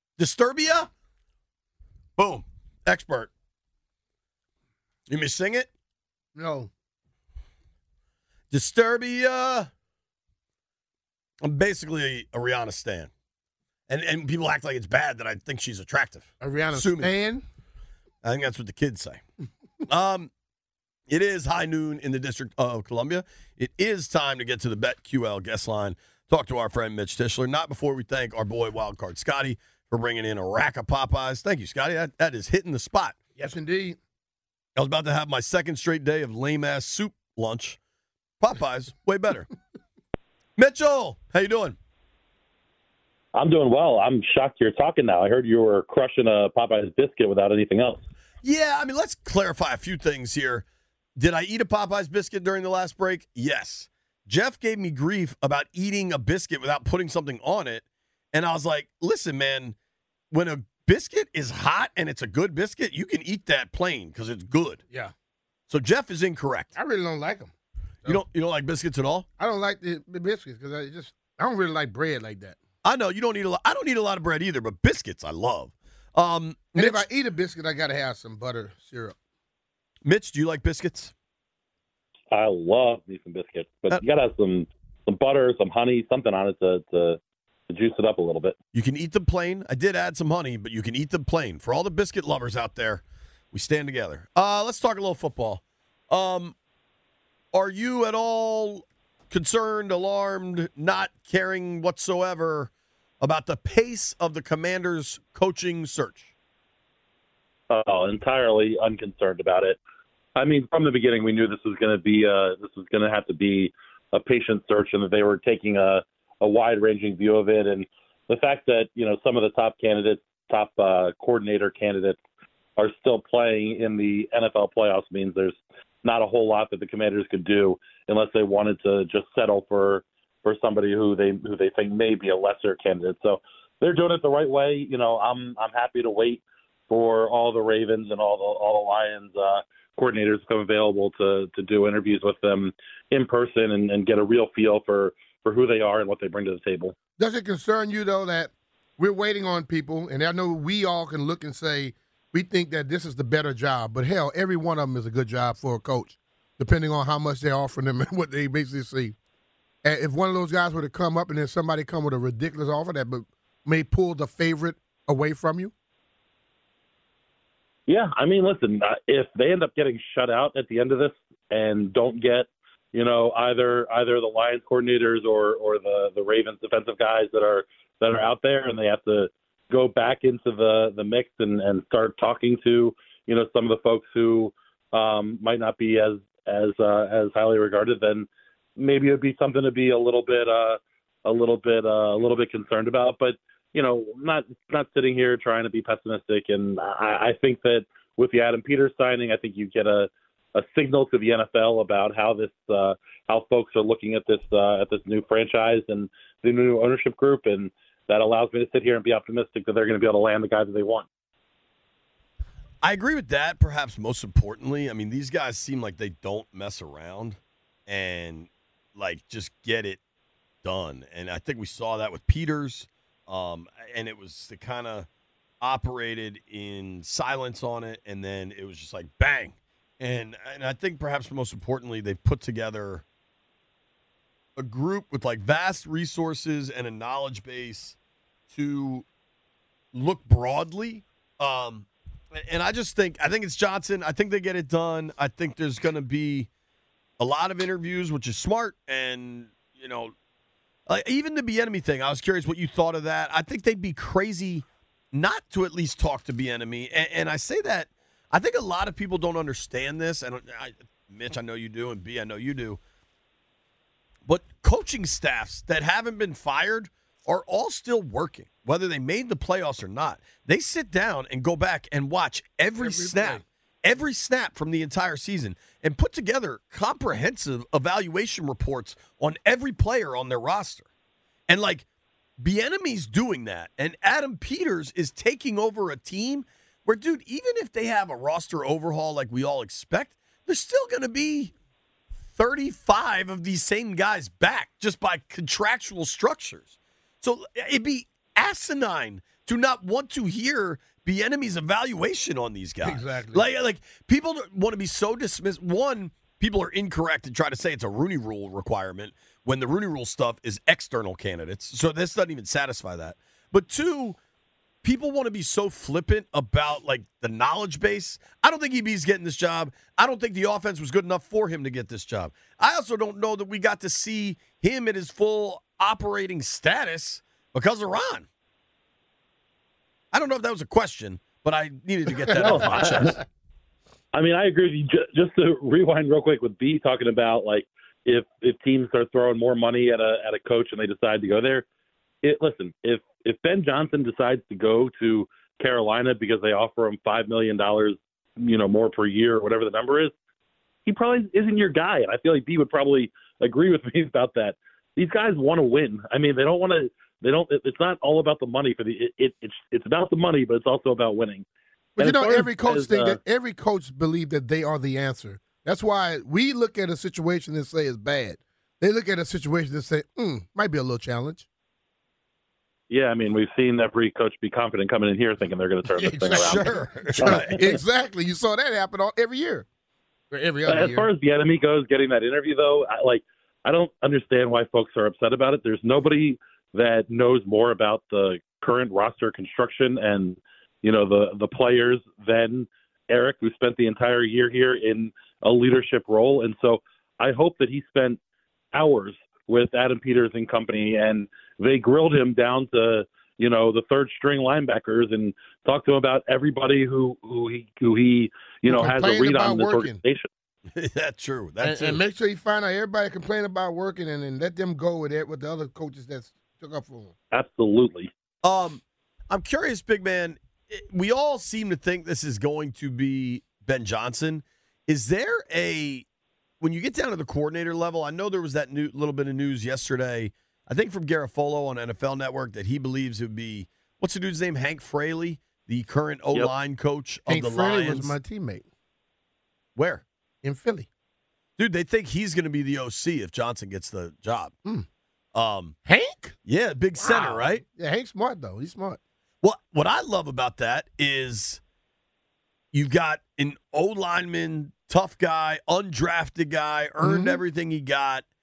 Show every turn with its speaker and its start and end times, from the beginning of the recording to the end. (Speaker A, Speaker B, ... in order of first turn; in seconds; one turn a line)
Speaker A: 0.2-0.9
Speaker A: 2.2-3.3
Speaker A: 5.1-5.7
Speaker B: 6.3-6.7
Speaker A: 8.5-9.7
Speaker A: 11.4-13.1
Speaker A: 13.9-17.1
Speaker B: 16.4-17.4
Speaker A: 18.2-19.2
Speaker A: 19.9-20.3
Speaker A: 21.1-33.2
Speaker B: 33.4-34.0
Speaker A: 34.8-37.8
Speaker A: 38.4-39.5
Speaker A: 40.6-41.8
Speaker C: 43.3-48.0
Speaker A: 48.4-50.6
Speaker A: 51.2-59.8
Speaker A: 60.3-64.8
Speaker A: 65.7-66.7
Speaker B: 66.8-67.5
Speaker A: 68.1-69.2
Speaker B: 69.4-72.6
Speaker A: 72.8-77.0
Speaker B: 76.8-79.2
Speaker A: 80.0-81.1
Speaker C: 82.3-88.5
Speaker A: 88.7-96.5
Speaker A: 97.5-106.3
Speaker C: 107.7-109.8
Speaker C: 110.4-122.2
Speaker C: 122.8-146.9
Speaker B: 147.2-159.2
Speaker B: 159.8-165.7
Speaker C: 167.9-211.1
Speaker A: 212.8-220.0
Speaker A: 220.6-225.1
Speaker A: 225.6-233.0
Speaker A: 234.6-237.9
Speaker A: 238.5-239.1
Speaker A: 239.9-246.5
Speaker A: 247.2-250.1
Speaker A: 250.9-262.8
Speaker A: 264.3-280.9
Speaker B: 272.8-273.4
Speaker A: 281.5-281.9
Speaker A: 282.4-291.5
Speaker A: 292.3-314.2
Speaker B: 302.8-303.4
Speaker A: 314.8-328.3
Speaker A: 330.1-333.2
Speaker C: 332.4-333.1
Speaker C: 334.1-341.6
Speaker C: 342.2-350.1
Speaker C: 350.9-361.4
Speaker B: 362.0-371.5
Speaker C: 362.0-363.2
Speaker C: 372.9-377.6
Speaker B: 375.9-379.6
Speaker A: 376.3-377.7
Speaker B: 380.3-381.1
Speaker C: 380.6-398.2
Speaker C: 398.7-410.3
Speaker B: 408.7-410.0
Speaker A: 410.8-412.0
Speaker B: 411.6-417.1
Speaker C: 417.3-418.1
Speaker A: 418.4-426.1
Speaker A: 426.6-438.1
Speaker B: 437.3-438.6
Speaker A: 439.8-440.1
Speaker B: 440.4-440.9
Speaker A: 441.6-444.6
Speaker A: 445.3-445.8
Speaker B: 445.9-446.4
Speaker A: 446.4-447.6
Speaker B: 447.0-449.0
Speaker A: 449.4-451.6
Speaker A: 452.7-458.2
Speaker B: 457.0-457.4